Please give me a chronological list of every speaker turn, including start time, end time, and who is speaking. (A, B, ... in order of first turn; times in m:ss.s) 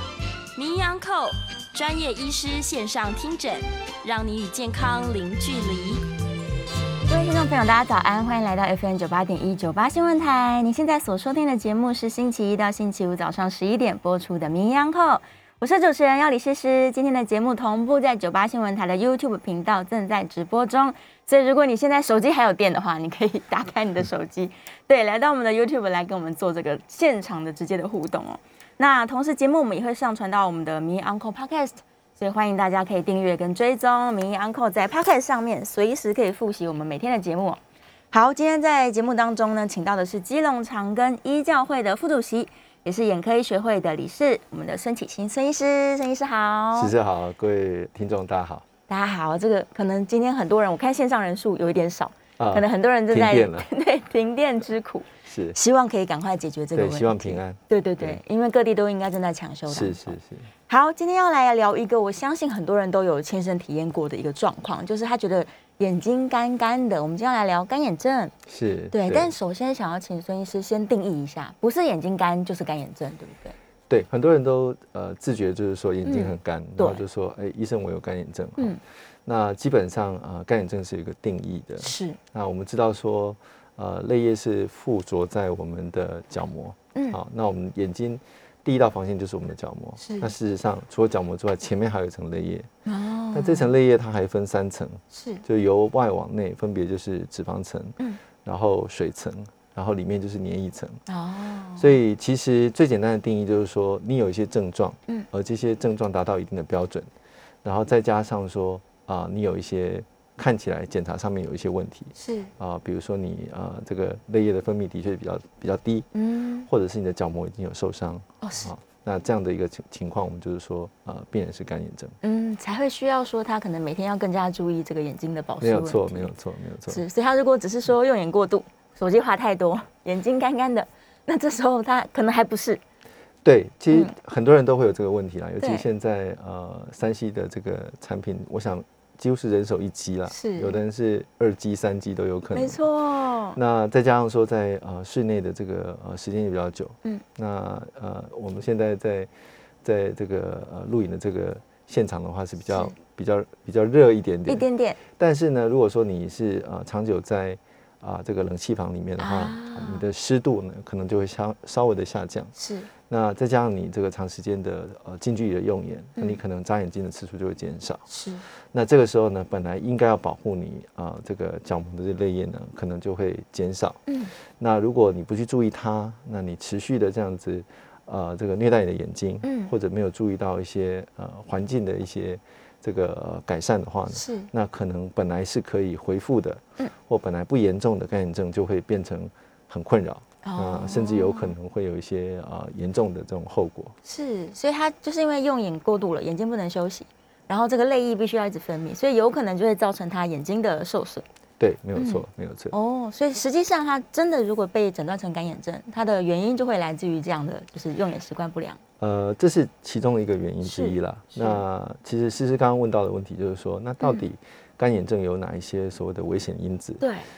0:00.6-0:06.0 A
0:07.1-0:37.6 B
0:38.1-0:46.9 B
0:46.7-0:48.6 C
0:48.9-1:00.2 B
0:52.4-0:53.7 C
0:55.3-0:55.6 C
0:56.7-0:58.2 C
0:59.7-1:00.5 C
1:00.7-1:08.3 B
1:08.5-1:09.3 C
1:08.9-1:13.6 B
1:13.9-1:32.7 C
1:16.0-1:17.0 B
1:21.8-1:22.2 B
1:30.0-1:30.3 B
1:32.8-1:33.7 B
1:33.3-1:41.0 C
1:35.1-1:35.4 B
1:41.1-1:41.9 B
1:41.8-1:47.1 C
1:47.6-1:56.1 C
1:52.2-1:52.5 B
1:56.1-1:56.7 B
1:56.7-2:02.2 C
1:58.4-1:58.7 B
2:02.2-2:06.3 B
2:05.6-2:07.0 C
2:06.9-2:12.8 B
2:13.4-2:22.8 C
2:15.6-2:15.9 B
2:20.3-2:20.8 B
2:22.5-2:23.6 B
2:23.5-2:29.3 C
2:29.8-2:42.5 C
2:34.5-2:35.0 B
2:39.2-2:40.0 B
2:42.6-2:42.9 B
2:43.1-2:48.0 C
2:48.1-2:48.4 B
2:48.7-2:54.0 C
2:54.1-2:54.3 B
2:54.6-3:13.9 C
2:59.4-2:59.7 B
3:04.1-3:04.5 B
3:10.4-3:11.5 B
3:14.0-3:21.2 B
3:21.6-3:22.7 C
3:22.0-3:28.8 B
3:29.0-3:37.0 C
3:30.6-3:31.6 B
3:37.0-3:37.3 B